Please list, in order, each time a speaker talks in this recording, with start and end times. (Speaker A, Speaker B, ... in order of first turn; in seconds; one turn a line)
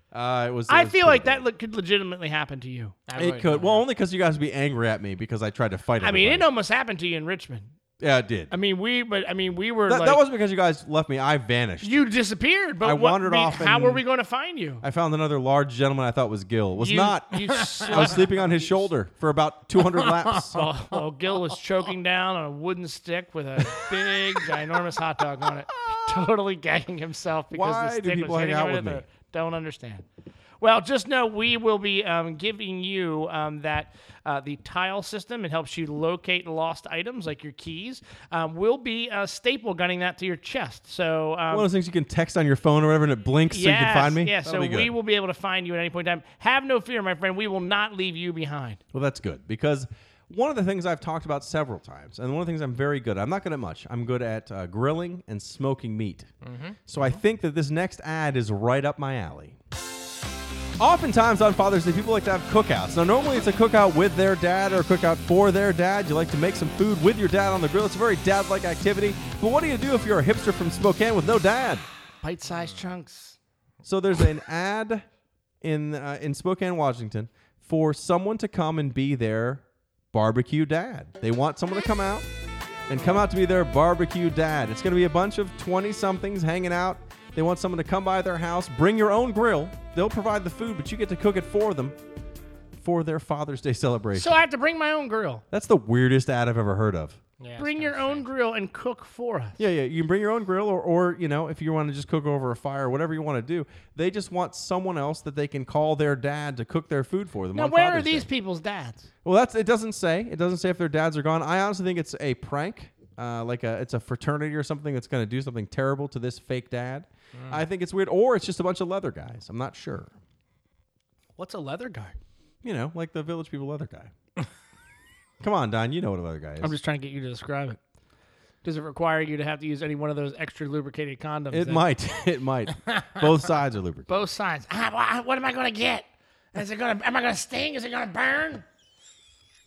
Speaker A: 0.1-1.4
Speaker B: 0.7-3.0
Speaker C: 3.1-3.9
Speaker A: 3.2-6.5
Speaker B: 6.0-7.7
Speaker A: 8.0-8.5
Speaker B: 8.5-10.2
Speaker A: 9.9-12.0
Speaker B: 11.8-14.8
Speaker A: 12.8-14.0
Speaker A: 14.8-20.6
Speaker B: 16.8-18.9
Speaker C: 17.4-18.2
Speaker C: 19.8-21.0
Speaker B: 20.5-30.1
Speaker A: 27.5-29.0
Speaker B: 30.6-41.7
Speaker A: 41.5-44.9
Speaker B: 43.5-48.8
Speaker A: 48.9-56.3
Speaker C: 56.4-57.2
Speaker A: 56.9-59.6
Speaker A: 60.8-71.8
Speaker B: 72.2-73.4
Speaker C: 72.5-72.9
Speaker A: 73.8-75.0
Speaker A: 75.6-82.3
Speaker A: 82.9-92.0
Speaker A: 92.8-94.3
Speaker B: 94.2-95.4
Speaker A: 95.5-97.2
Speaker C: 97.4-98.3
Speaker B: 97.6-99.6
Speaker A: 99.6-108.3
Speaker B: 107.5-109.1
Speaker A: 109.2-120.2
Speaker C: 117.3-117.6
Speaker B: 121.4-122.2
Speaker A: 122.6-124.1
Speaker A: 125.4-126.7
Speaker B: 126.6-127.8
Speaker B: 128.6-131.9
Speaker A: 131.5-134.1
Speaker B: 134.1-138.6